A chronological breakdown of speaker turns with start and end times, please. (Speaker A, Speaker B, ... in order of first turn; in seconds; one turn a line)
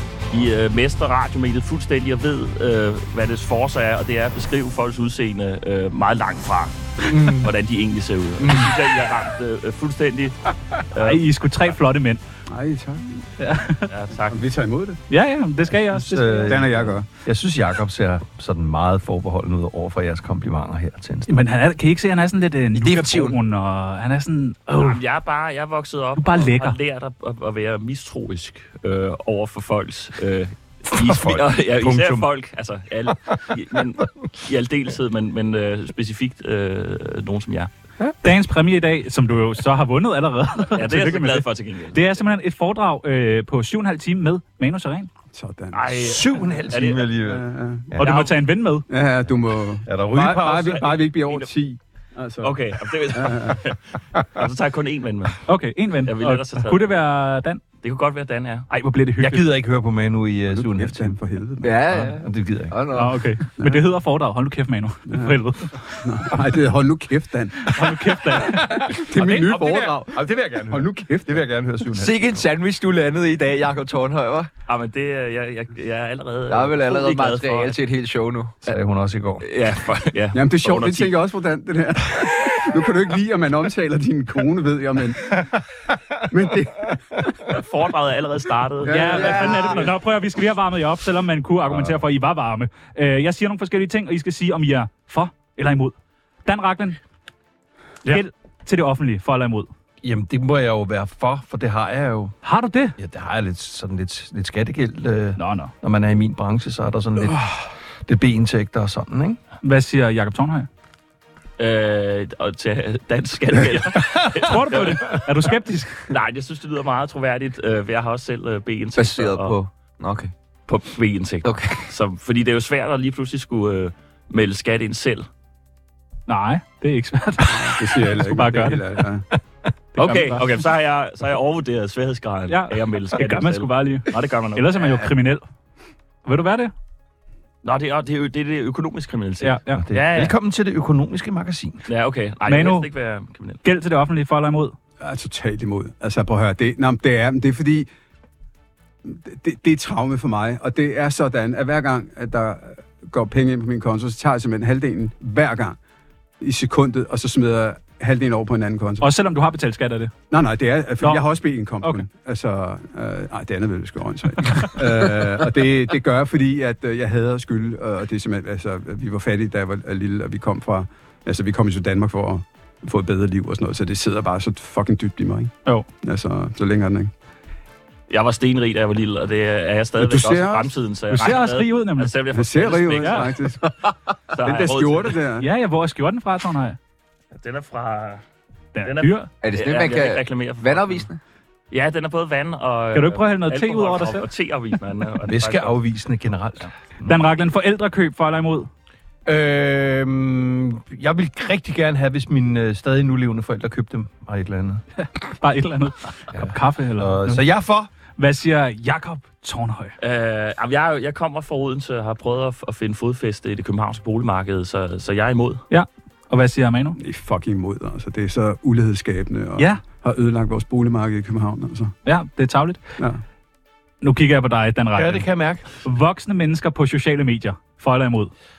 Speaker A: 0.3-11.3
Speaker B: 7.1-7.5
Speaker B: 8.4-8.7
Speaker C: 11.0-12.2
Speaker D: 12.5-13.2
Speaker C: 13.4-13.9
Speaker A: 13.9-14.4
Speaker D: 14.3-15.0
Speaker C: 15.1-16.6
Speaker E: 15.8-21.3
Speaker D: 16.5-17.1
Speaker C: 21.3-25.0
Speaker B: 22.7-23.4
Speaker A: 24.8-37.7
Speaker C: 26.2-26.8
Speaker E: 30.9-32.3
Speaker C: 38.2-45.1
Speaker A: 40.8-42.0
Speaker D: 45.3-46.6
Speaker A: 45.7-47.1
Speaker E: 46.0-48.2
Speaker D: 47.1-47.9
Speaker C: 48.0-48.9
Speaker A: 48.0-48.3
Speaker D: 48.9-53.6
Speaker E: 49.9-51.0
Speaker A: 50.8-51.5
Speaker A: 52.4-55.4
Speaker C: 55.5-57.6
Speaker A: 56.0-56.9
Speaker A: 57.8-58.7
Speaker C: 58.7-59.5
Speaker E: 59.2-61.2
Speaker D: 60.5-61.8
Speaker B: 61.6-63.2
Speaker E: 61.7-62.7
Speaker C: 62.9-65.8
Speaker D: 65.1-65.3
Speaker D: 65.9-67.9
Speaker C: 67.6-69.1
Speaker E: 68.5-72.4
Speaker D: 68.7-70.2
Speaker D: 70.7-71.4
Speaker B: 72.0-74.5
Speaker A: 74.7-77.8
Speaker B: 76.5-78.5
Speaker E: 78.7-79.5
Speaker A: 79.4-81.2
Speaker D: 80.3-85.5
Speaker D: 86.3-87.2
Speaker A: 87.5-89.9
Speaker D: 88.8-89.8
Speaker C: 88.9-96.0
Speaker B: 89.1-89.7
Speaker E: 91.7-91.9
Speaker C: 96.5-97.0
Speaker C: 98.0-99.7
Speaker E: 100.0-102.3
Speaker C: 102.4-103.0
Speaker E: 103.0-107.5
Speaker C: 105.4-105.7
Speaker E: 108.1-109.4
Speaker C: 109.6-110.7
Speaker A: 111.6-115.3
Speaker C: 114.4-116.0
Speaker A: 116.1-119.6
Speaker B: 119.0-120.3
Speaker A: 120.7-125.3
Speaker B: 121.4-121.8
Speaker C: 126.3-128.8
Speaker D: 127.5-129.2
Speaker C: 129.9-130.4
Speaker A: 130.0-135.1
Speaker C: 132.5-135.4
Speaker C: 136.2-136.7
Speaker A: 137.6-140.3
Speaker C: 139.4-139.8
Speaker E: 139.8-141.8
Speaker A: 141.9-143.6
Speaker C: 142.5-142.9
Speaker C: 143.6-144.8
Speaker D: 145.0-147.9
Speaker D: 149.1-155.8
Speaker D: 156.4-159.1
Speaker C: 159.0-160.1
Speaker D: 160.3-177.1
Speaker C: 161.0-161.3
Speaker A: 178.1-183.5
Speaker D: 180.0-180.7
Speaker C: 181.1-182.1
Speaker D: 182.3-183.8
Speaker C: 183.0-183.3
Speaker A: 184.3-185.2
Speaker D: 184.4-185.5
Speaker C: 185.4-186.8
Speaker A: 187.3-188.2
Speaker C: 188.8-189.3
Speaker A: 188.8-191.1
Speaker B: 189.4-191.2
Speaker A: 191.7-195.8
Speaker C: 192.9-194.2
Speaker E: 195.3-197.2
Speaker C: 197.1-198.7
Speaker E: 199.2-204.8
Speaker C: 205.0-207.5
Speaker E: 206.3-207.9
Speaker C: 208.2-209.9
Speaker A: 210.0-215.6
Speaker C: 215.7-217.0
Speaker D: 217.0-221.9
Speaker C: 222.1-222.8
Speaker C: 224.0-228.3
Speaker E: 224.9-225.7